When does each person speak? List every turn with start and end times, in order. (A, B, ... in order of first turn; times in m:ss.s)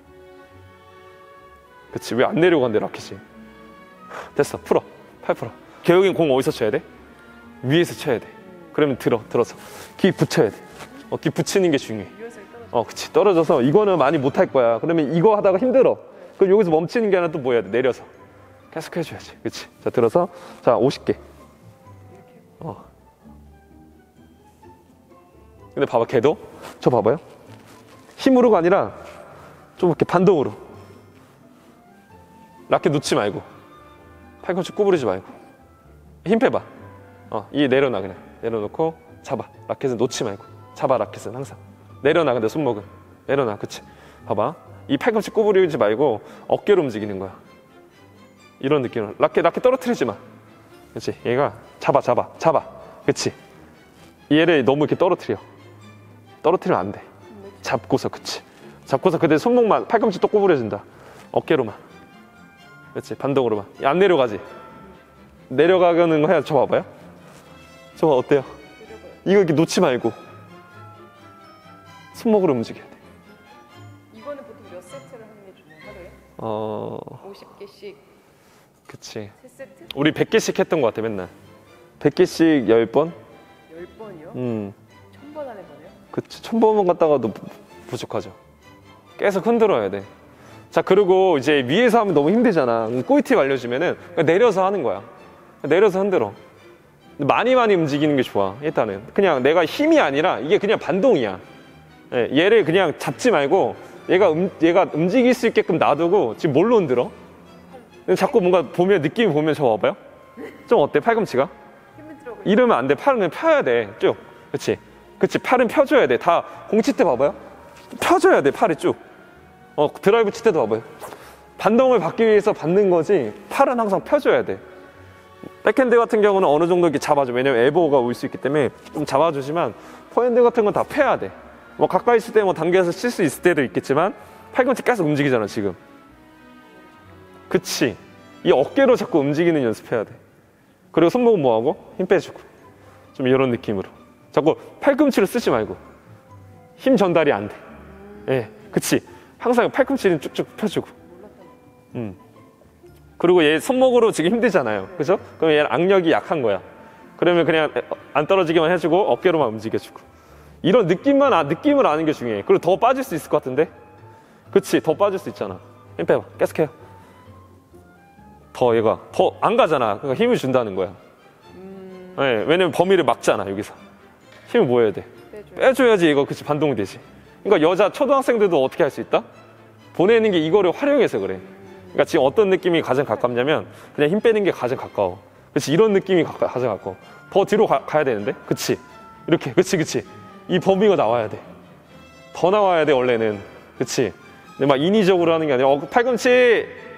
0:01.9-0:03.2 A
0:04.3-0:06.8 A
0:07.6-0:12.1 A
0:12.2-0:12.7 B
0:12.7-0:18.1 A
0:18.7-0:21.2 A
0:25.7-0:27.2 A
0:28.2-0:29.0 A
0:29.8-0:30.6 A
0:32.7-0:33.4 A
0:34.4-0:35.3 A
0:36.2-0:36.7 A
0:37.3-0:47.4 A
0:48.6-0:50.2 A
0:50.9-0:53.4 A
0:54.3-0:55.4 A
0:56.4-0:57.1 A
0:57.6-1:01.8 A
1:02.9-1:04.4 A
1:05.5-1:06.9 A
1:08.0-1:08.5 A
1:08.9-1:09.2 B
1:09.2-1:10.2 A
1:12.1-1:13.0 A
1:14.1-1:16.2 B
1:16.4-1:17.2 A
1:17.2-1:18.1 B
1:18.9-1:19.3 A
1:19.4-1:19.9 B
1:19.9-1:21.3 A
1:22.0-1:23.2 A
1:23.7-1:24.4 B
1:24.3-1:24.8 A
1:25.1-1:26.0 B
1:26.1-1:28.4 A
1:29.2-1:30.1 A
1:30.7-1:35.1 A
1:35.6-1:36.4 A
1:37.2-1:41.4 A
1:42.1-1:47.1 A
1:48.1-1:50.0 A
1:48.1-1:48.4 B
1:50.6-1:51.5 A
1:52.0-1:52.7 B
1:52.4-1:57.4 A
1:57.9-1:59.0 A
1:59.8-2:00.9 A
2:01.6-2:04.6 A
2:05.6-2:15.8 A
2:17.5-2:20.2 A
2:20.9-2:22.5 A
2:23.1-2:25.8 A
2:26.8-2:27.6 A
2:27.9-2:28.7 B
2:28.2-2:30.9 A
2:31.0-2:31.6 B
2:33.2-2:36.6 A
2:37.2-2:40.0 A
2:40.6-2:43.7 A
2:44.5-2:46.7 A
2:48.5-2:51.0 A
2:51.5-2:52.3 B
2:52.2-2:53.8 A
2:54.5-2:59.2 A
2:55.3-2:55.8 B
2:59.9-3:11.4 A
3:01.6-3:01.9 B
3:12.3-3:16.8 A